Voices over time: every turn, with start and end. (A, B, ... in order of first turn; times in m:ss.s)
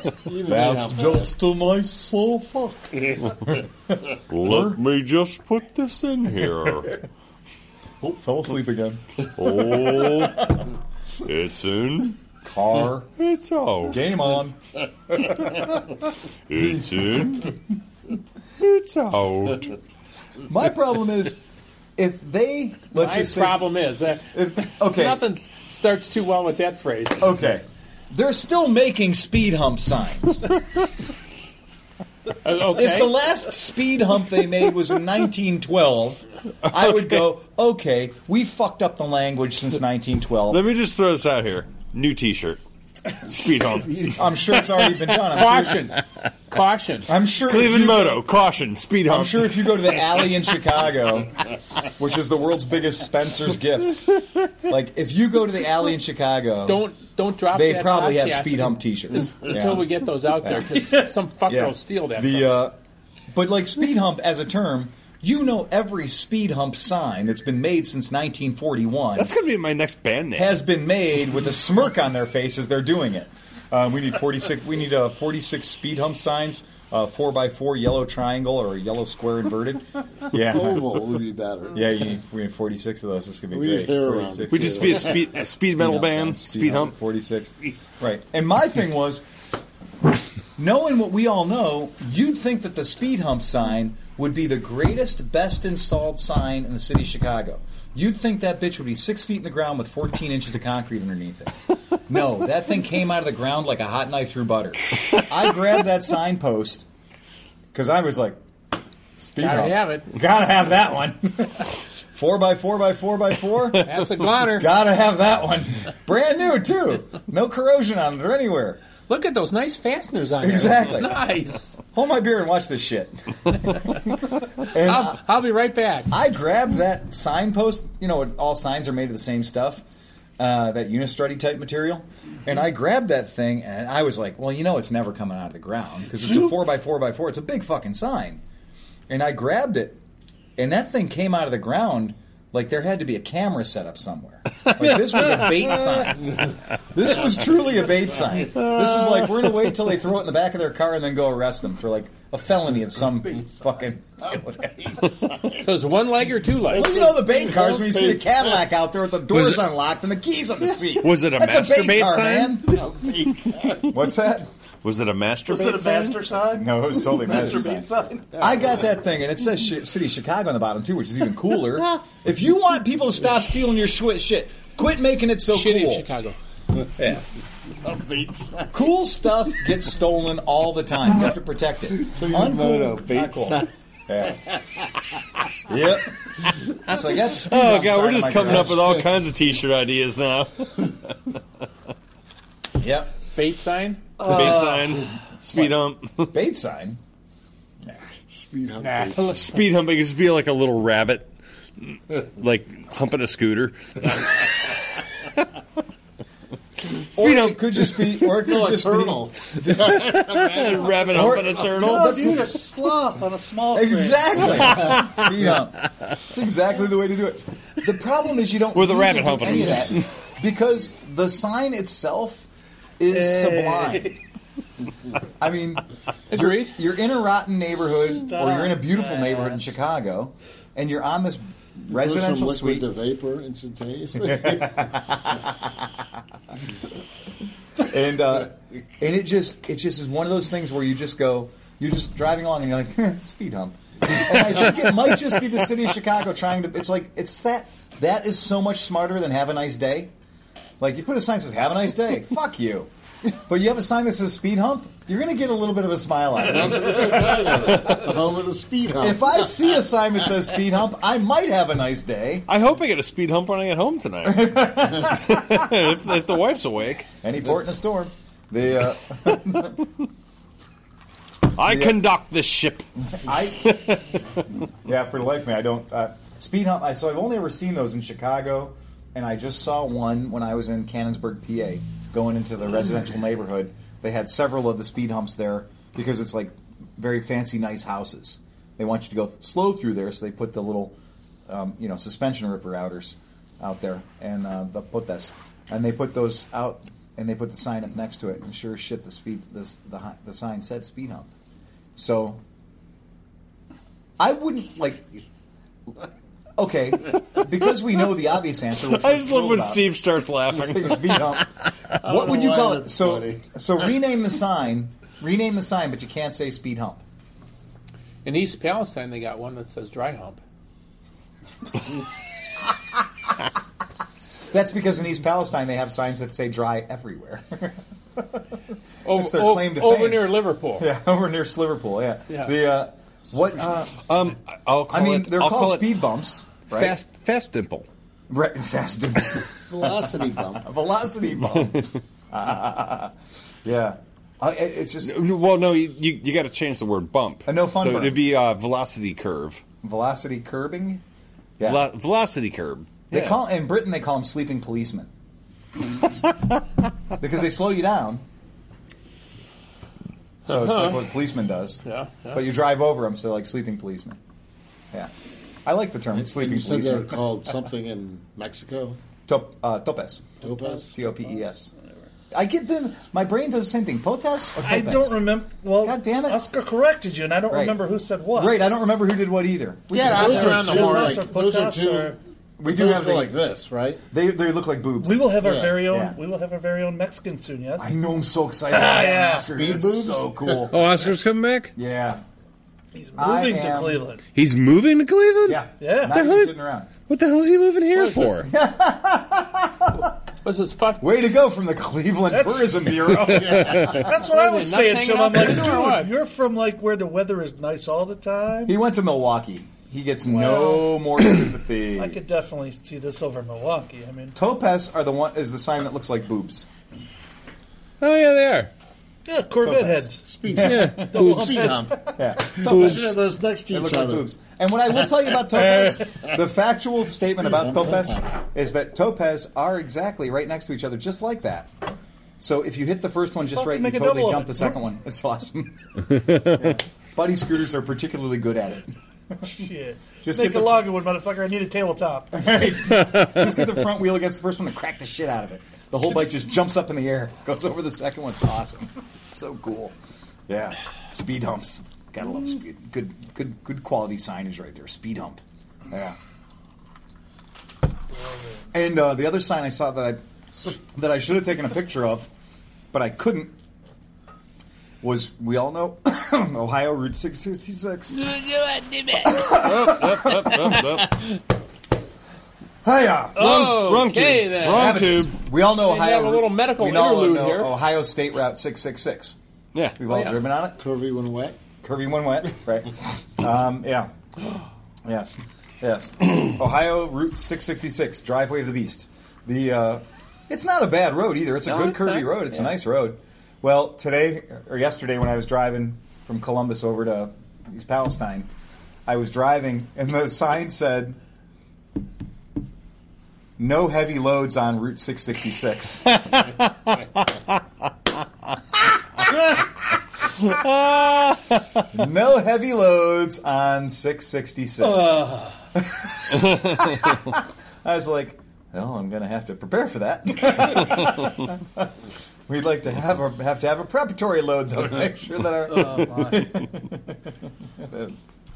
0:00.2-0:01.3 A
0:00.4-0:04.8 B
0:04.3-0:07.0 C
0:08.0-0:10.2 B
0:09.3-0:10.6 C
0:11.2-0:12.2 C
0:12.4-0:13.1 B
0:13.2-0:14.0 C
0:13.9-0:14.6 B
0:15.1-0:15.7 B
0:16.5-0:17.5 C
0:16.6-0:17.5 B
0:18.6-0:19.8 C
0:20.4-0:21.4 B
0:22.0-0:23.7 B
0:22.9-0:27.3 D
0:24.3-0:25.2 B
0:27.2-0:30.6 B
0:32.4-0:33.2 D
0:32.6-0:40.6 B
0:40.5-0:42.6 C
0:43.2-0:44.4 C
0:43.9-0:45.9 B
0:45.2-0:47.1 D
0:47.1-0:48.2 B
0:47.4-0:50.2 C
0:49.1-0:56.9 B
0:56.7-1:02.6 D
0:57.5-1:00.8 B
1:01.5-1:02.8 B
1:03.3-1:09.3 B
1:09.2-1:10.6 C
1:10.4-1:21.0 B
1:20.4-1:21.9 A
1:21.7-1:29.2 B
1:23.5-1:25.2 A
1:24.5-1:26.9 C
1:30.6-1:41.5 B
1:42.1-1:46.9 B
1:47.7-1:48.4 B
1:49.2-1:58.8 B
1:49.4-1:50.1 D
1:53.8-1:54.7 D
1:59.0-2:01.8 D
2:00.4-2:01.2 B
2:01.9-2:05.2 B
2:04.7-2:06.1 D
2:06.1-2:09.8 B
2:10.4-2:18.4 B
2:19.1-2:20.0 B
2:20.6-2:35.2 B
2:28.5-2:29.6 C
2:35.6-2:37.0 D
2:36.7-2:42.8 B
2:36.8-2:38.6 A
2:39.3-2:39.6 C
2:41.0-2:42.9 C
2:42.7-2:43.9 A
2:43.8-2:44.5 B
2:44.8-2:46.2 C
2:45.5-2:48.5 E
2:46.5-2:56.1 B
2:48.3-2:48.8 A
2:55.5-2:56.4 D
2:57.0-2:57.2 B
2:57.8-2:58.8 A
2:58.7-3:04.5 B
3:02.0-3:03.7 A
3:05.7-3:09.0 B
3:07.3-3:11.2 C
3:08.5-3:09.1 A
3:12.8-3:13.2 B
3:13.3-3:14.1 D
3:14.2-3:15.0 E
3:14.2-3:16.3 C
3:14.3-3:14.7 B
3:16.3-3:17.0 B
3:18.3-3:19.4 A
3:18.8-3:19.5 D
3:19.4-3:25.0 C
3:27.0-3:28.2 C
3:27.2-3:29.8 B
3:28.4-3:31.4 A
3:29.8-3:32.4 C
3:31.1-3:32.4 B
3:31.5-3:34.7 E
3:33.7-3:42.5 B
3:34.7-3:35.3 C
3:38.7-3:40.1 C
3:43.0-3:44.2 B
3:43.1-3:44.2 E
3:45.4-3:52.9 B
3:46.3-3:46.8 D
3:47.9-3:49.6 E
3:51.9-3:54.9 A
3:54.2-3:55.9 B
3:57.8-4:10.1 B
4:10.8-4:18.0 B
4:16.5-4:19.5 A
4:19.0-4:22.5 B
4:22.5-4:27.1 C
4:24.2-4:25.7 B
4:27.2-4:29.8 B
4:31.6-4:32.9 C
4:31.6-4:32.0 B
4:33.2-4:33.8 B
4:33.5-4:34.2 C
4:34.8-4:51.0 B
4:51.5-5:01.3 B
5:02.0-5:02.4 B
5:04.2-5:05.1 B
5:06.6-5:10.0 B
5:08.8-5:11.4 C
5:10.5-5:11.5 B
5:12.0-5:17.0 B
5:12.0-5:13.4 A
5:18.2-5:20.4 D
5:24.5-5:28.4 B
5:29.0-5:30.9 D
5:29.0-5:34.2 B
5:34.0-5:36.0 C
5:34.9-5:37.0 B
5:36.7-5:37.9 C
5:38.3-5:45.2 B
5:39.7-5:40.7 A
5:45.0-5:49.6 C
5:47.5-5:48.3 B
5:49.8-5:51.0 B
5:51.6-5:51.8 B
5:51.6-5:53.0 C
5:53.1-5:55.1 B
5:57.2-5:58.2 B
6:00.5-6:01.0 D
6:00.5-6:04.2 B
6:01.8-6:02.4 D
6:05.6-6:07.2 B
6:06.1-6:09.0 A
6:09.3-6:11.7 B
6:10.4-6:11.0 A
6:10.5-6:10.8 E
6:12.3-6:15.2 B
6:14.6-6:18.6 E
6:15.8-6:16.4 B
6:17.5-6:17.8 B
6:18.4-6:20.8 B
6:19.9-6:21.2 D
6:20.0-6:24.0 A
6:20.1-6:22.2 E
6:22.6-6:23.3 B
6:24.1-6:25.2 B
6:25.0-6:28.0 E
6:25.4-6:25.9 A
6:25.8-6:26.2 B
6:27.8-6:30.9 B
6:28.7-6:29.5 E
6:29.6-6:30.7 A
6:30.7-6:31.7 C
6:31.8-6:32.2 B
6:33.0-6:34.2 E
6:33.2-6:34.0 B
6:34.4-6:36.5 C
6:35.4-6:36.9 B
6:35.8-6:36.2 E
6:37.1-6:38.5 C
6:37.9-6:38.5 D
6:38.4-6:40.1 B
6:40.4-6:41.0 D
6:41.0-6:44.1 B
6:42.3-6:48.8 E
6:43.3-6:43.8 A
6:43.8-6:46.1 D
6:48.7-6:52.2 B
6:50.2-6:51.0 E
6:52.0-6:54.4 E
6:54.4-6:56.7 B
6:58.0-6:58.7 C
6:59.3-7:02.0 E
6:59.6-7:01.4 B
7:00.2-7:04.3 A
7:00.6-7:01.8 C
7:02.1-7:11.7 B
7:07.4-7:08.4 A
7:12.4-7:15.8 B
7:13.5-7:14.8 E
7:16.3-7:19.6 B
7:19.5-7:22.4 E
7:20.2-7:20.9 B
7:22.3-7:30.0 B
7:30.5-7:36.2 B
7:38.1-7:38.6 E
7:38.7-7:42.3 B
7:42.9-7:43.5 B
7:45.0-7:48.3 B
7:48.2-7:49.4 D
7:49.2-7:50.8 B
7:49.5-7:51.2 C
7:51.0-7:51.4 D
7:52.8-7:53.6 B
7:53.4-7:55.1 D
7:53.4-7:55.4 C
7:54.6-7:59.4 B
7:55.7-7:57.7 D
7:59.7-8:00.0 C
8:00.0-8:00.8 B
8:00.1-8:00.4 D
8:00.8-8:01.6 A
8:01.8-8:04.1 B
8:05.0-8:18.5 B
8:11.6-8:12.7 D
8:19.1-8:21.2 B
8:23.6-8:26.4 B
8:30.5-8:31.6 C
8:31.9-8:42.0 B
8:34.8-8:35.6 E
8:42.5-8:48.2 B
8:45.7-8:46.5 E